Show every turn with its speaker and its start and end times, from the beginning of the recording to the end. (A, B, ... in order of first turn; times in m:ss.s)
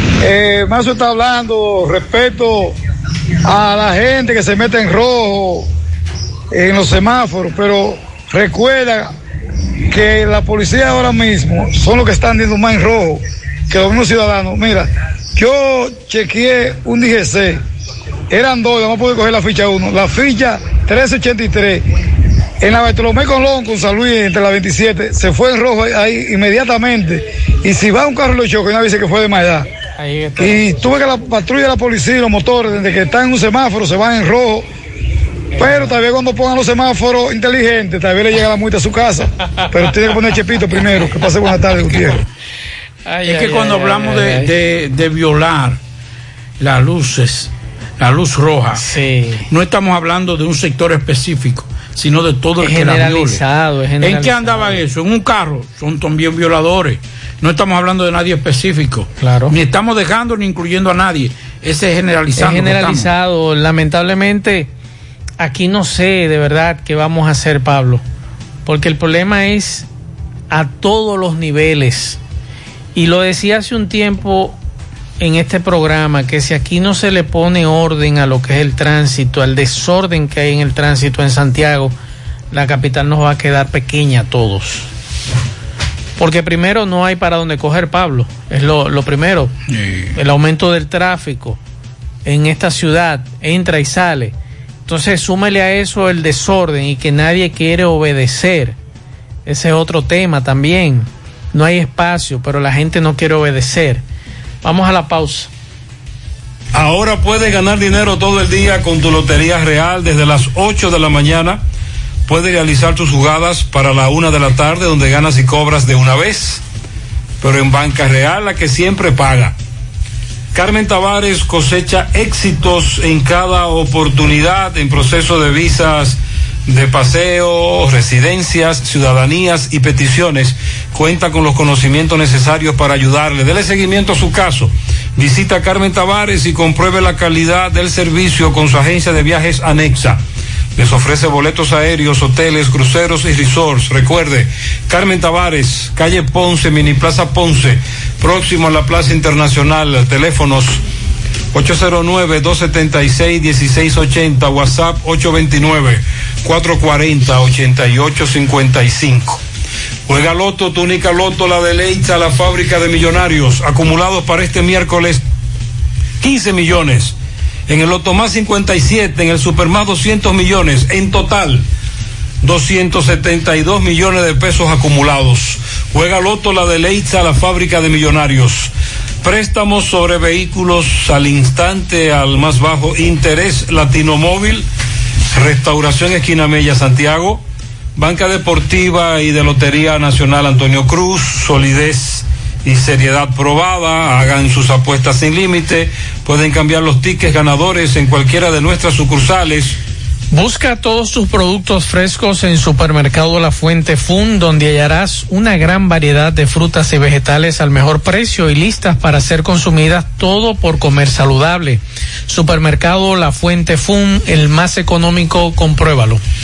0:00.2-0:02.8 A
0:03.4-0:05.7 A
0:06.5-0:09.1 A
0:09.9-0:17.6 A
0:18.3-0:21.8 A
0:22.6-0:29.7 A
0:30.0-0:30.9 B
0:30.4-0:34.7 A
0:35.6-0:42.2 A
0:43.1-0:44.5 B
0:43.3-0:45.8 C
0:46.6-0:48.8 C
0:48.7-0:49.5 B
0:49.5-0:53.4 C
0:52.6-0:54.8 B
0:54.0-1:03.1 C
0:59.2-0:59.5 B
1:02.4-1:04.7 B
1:05.4-1:08.0 B
1:08.7-1:09.9 B
1:10.5-1:12.2 B
1:13.0-1:14.6 B
1:15.2-1:22.0 B
1:22.5-1:24.9 B
1:26.2-1:29.5 B
1:29.7-1:30.1 C
1:30.2-1:31.6 B
1:32.2-1:34.4 B
1:34.9-1:38.8 B
1:39.4-1:44.0 B
1:44.6-1:45.5 B
1:46.7-1:51.6 D
1:52.3-1:56.6 D
1:57.4-1:59.6 D
2:00.5-2:20.2 D
2:20.8-2:30.8 D
2:31.5-2:39.4 D
2:40.1-2:45.2 D
2:46.2-2:47.2 D
2:47.7-2:51.6 D
2:52.4-3:04.6 D
3:05.3-3:07.4 D
3:08.0-3:19.7 D
3:20.3-3:36.2 B